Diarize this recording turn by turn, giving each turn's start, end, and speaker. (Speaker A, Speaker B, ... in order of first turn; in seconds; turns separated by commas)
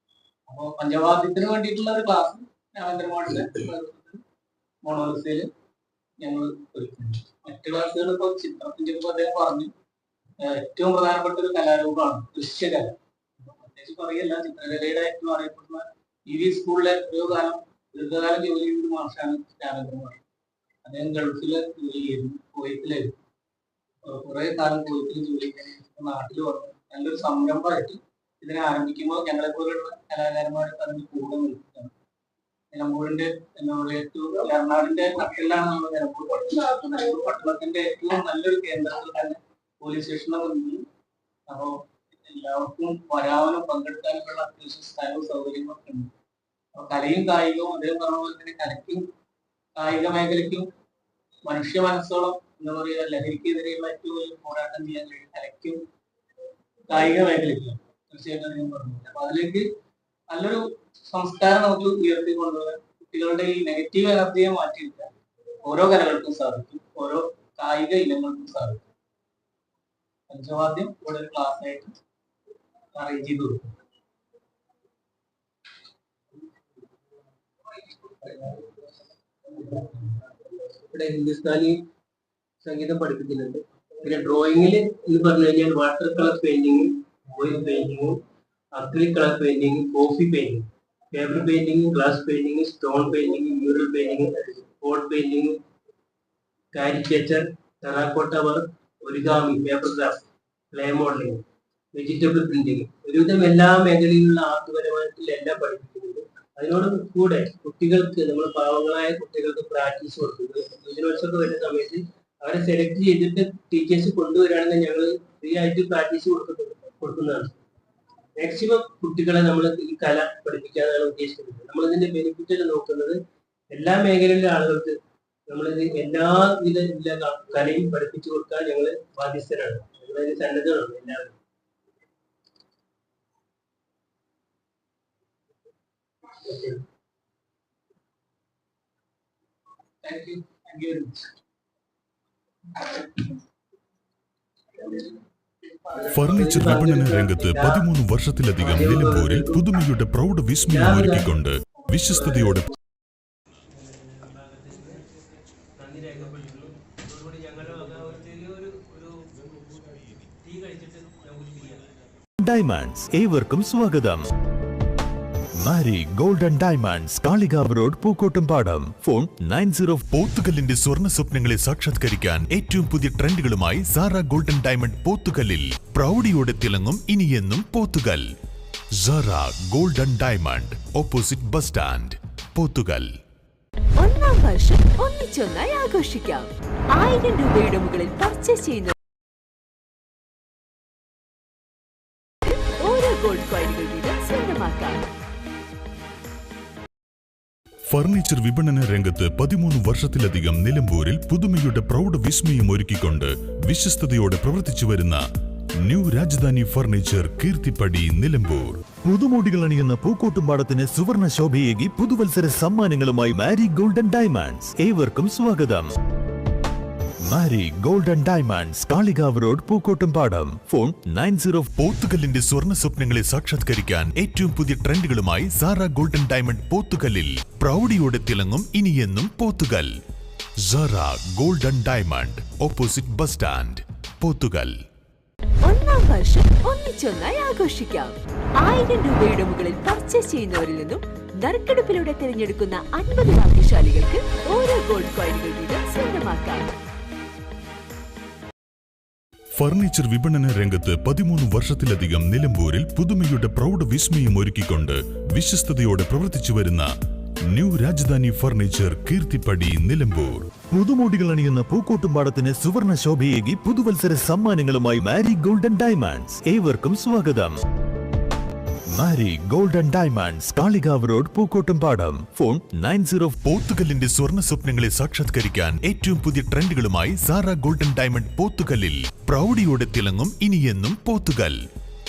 Speaker A: 0.5-4.2, Speaker A: 4.8-5.5, Speaker A: 6.2-9.7, Speaker A: 10.4-20.2, Speaker A: 20.8-23.1, Speaker A: 24.0-31.9, Speaker A: 32.7-40.8, Speaker A: 41.5-46.1, Speaker A: 46.7-49.0, Speaker A: 49.8-50.7, Speaker A: 51.4-55.8, Speaker A: 56.9-59.6, Speaker A: 60.3-65.1, Speaker A: 65.6-68.8, Speaker A: 70.3-71.9, Speaker A: 72.9-73.7, Speaker B: 80.7-81.8, Speaker B: 82.6-88.2, Speaker B: 88.7-95.6, Speaker B: 96.7-117.5, Speaker B: 118.4-123.2, Speaker B: 123.7-125.0, Speaker B: 125.5-131.4, Speaker A: 140.0-141.2, Speaker B: 145.9-147.8, Speaker C: 146.1-152.7, Speaker B: 148.6-149.8, Speaker B: 150.7-151.3, Speaker B: 152.1-152.7, Speaker B: 153.8-155.0, Speaker B: 155.8-161.9, Speaker D: 162.4-164.3, Speaker D: 165.5-170.1, Speaker C: 170.1-178.3, Speaker C: 179.0-183.1, Speaker E: 184.0-188.9, Speaker E: 192.4-195.1, Speaker C: 197.9-205.2, Speaker C: 205.8-208.8, Speaker D: 209.0-215.9, Speaker D: 217.2-221.7, Speaker C: 221.7-229.9, Speaker C: 230.6-234.8, Speaker E: 235.6-246.7, Speaker C: 249.6-256.9, Speaker C: 257.5-260.5, Speaker D: 260.7-267.6, Speaker D: 268.9-273.4, Speaker C: 273.4-281.6